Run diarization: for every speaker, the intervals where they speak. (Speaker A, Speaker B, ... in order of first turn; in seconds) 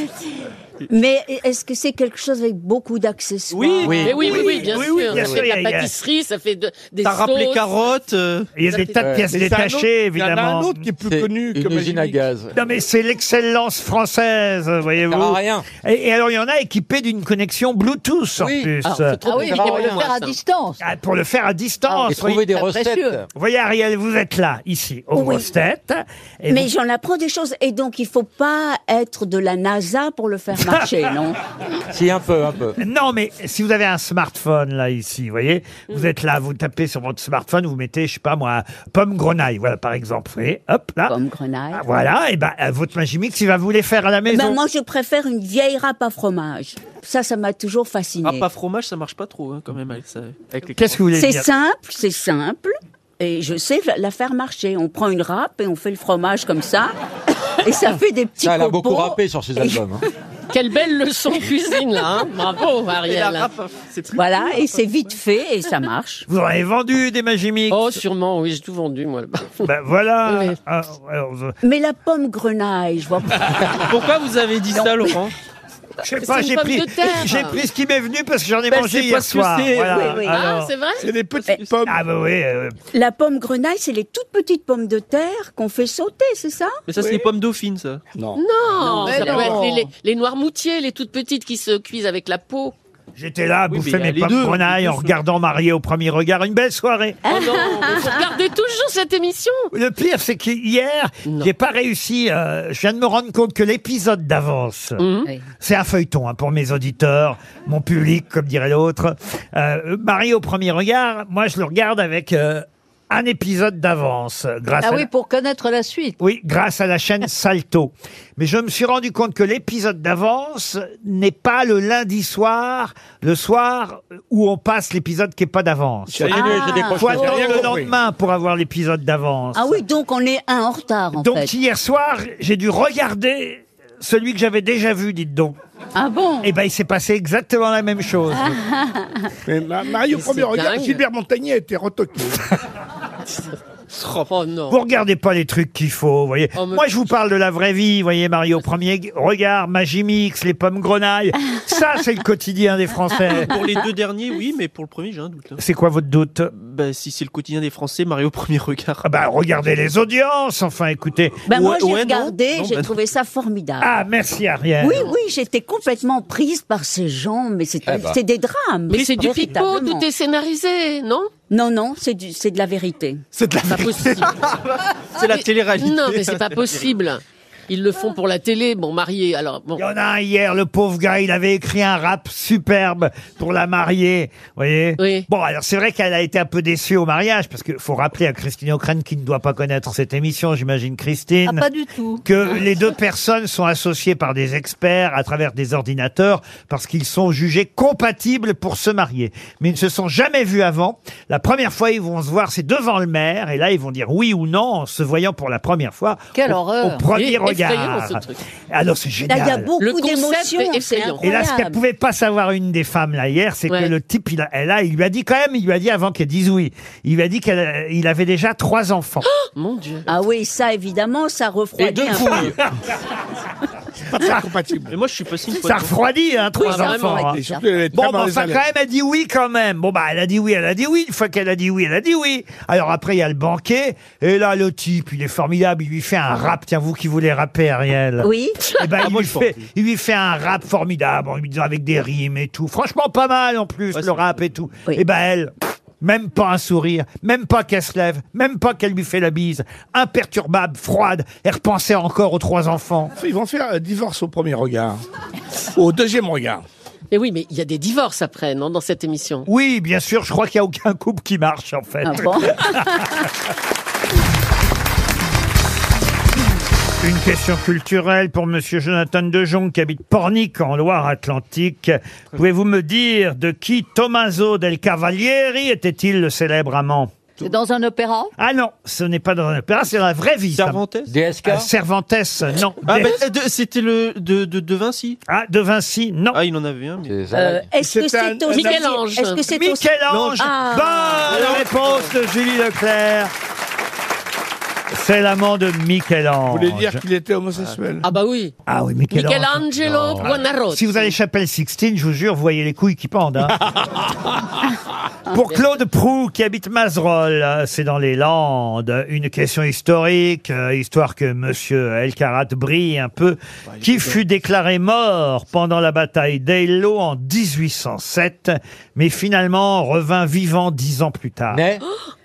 Speaker A: 0.9-4.4, 25.1-25.5, 26.5-31.4, 41.1-41.8, 44.3-48.4, 51.1-56.9, 57.6-59.8, 64.1-66.2, 71.6-73.8, 79.9-80.4, 82.9-86.8, 97.3-98.1, 126.3-127.2, 129.5-131.5, 135.9-136.5, 161.5-163.9, 164.8-170.1, 171.5-173.2, 209.3-211.8, 220.1-222.5, 226.6-227.6, 238.2-238.6, 262.0-262.7, 287.3-291.5
Speaker B: 3.5-4.1, 7.0-8.5, 48.2-50.9, 63.0-64.7, 73.8-75.3, 78.7-80.2, 81.4-81.7, 86.9-88.0, 93.7-95.1, 153.2-155.6, 156.5-159.1, 161.5-162.9, 174.2-176.9, 224.9-225.9, 239.0-239.6, 243.9-244.4, 280.5-281.1, 282.9-285.2, 286.3-287.1, 290.1-290.5, 291.3-291.7, 313.7-314.2
Speaker C: 3.8-4.5, 5.0-5.4, 8.9-9.3, 11.1-12.5, 15.1-15.7, 18.4-20.1, 22.1-23.2, 31.9-32.8, 58.4-60.0, 126.2-127.6, 167.8-168.2, 221.8-222.6, 281.1-281.7, 287.0-287.7, 299.8-300.4, 321.5-321.8
Speaker D: 4.0-7.7, 8.6-9.2, 18.8-20.4, 60.5-63.5, 67.7-69.7, 70.2-70.5, 76.1-77.6, 80.3-81.1, 88.3-92.7, 97.2-99.7, 101.2-101.5, 105.0-105.3, 140.1-141.0, 143.3-144.8, 146.6-146.8, 168.9-171.3, 173.7-174.3, 175.3-179.8, 185.0-185.3, 207.1-208.4, 209.8-211.2, 213.7-213.9, 219.2-220.0, 226.6-227.3, 257.1-259.5, 288.5-289.4, 298.0-298.5, 299.1-301.1, 305.3-305.6
Speaker E: 4.1-5.9, 8.6-10.8, 12.5-19.2, 20.8-22.5, 23.3-26.7, 30.6-30.8, 32.8-41.1, 41.7-44.6, 50.8-51.5, 66.3-68.0, 69.6-71.5, 76.0-80.7, 81.9-82.8, 93.2-97.6, 99.7-105.0, 105.6-115.1, 116.2-129.8, 131.2-135.6, 136.4-138.6, 144.7-153.6, 155.6-156.5, 159.0-161.4, 163.8-165.1, 179.8-191.7, 192.2-209.7, 211.2-219.3, 222.3-222.7, 225.6-227.4, 227.9-253.1, 259.4-263.3, 267.0-277.1, 278.4-280.8, 281.4-283.2, 285.3-286.4, 289.5-293.3, 294.9-297.0, 298.6-303.6, 305.3-321.6
Speaker F: 9.3-12.2, 81.0-82.0, 88.1-88.4, 89.0-89.7, 126.1-127.9, 139.4-142.4, 173.4-174.3, 224.1-224.9, 226.8-228.6, 253.2-255.0, 255.7-256.6, 287.8-288.9, 296.5-298.1, 303.6-304.4
Speaker G: 19.2-20.8, 21.9-23.2, 88.8-89.9, 114.8-116.2, 191.4-192.2, 206.3-207.1, 277.4-278.3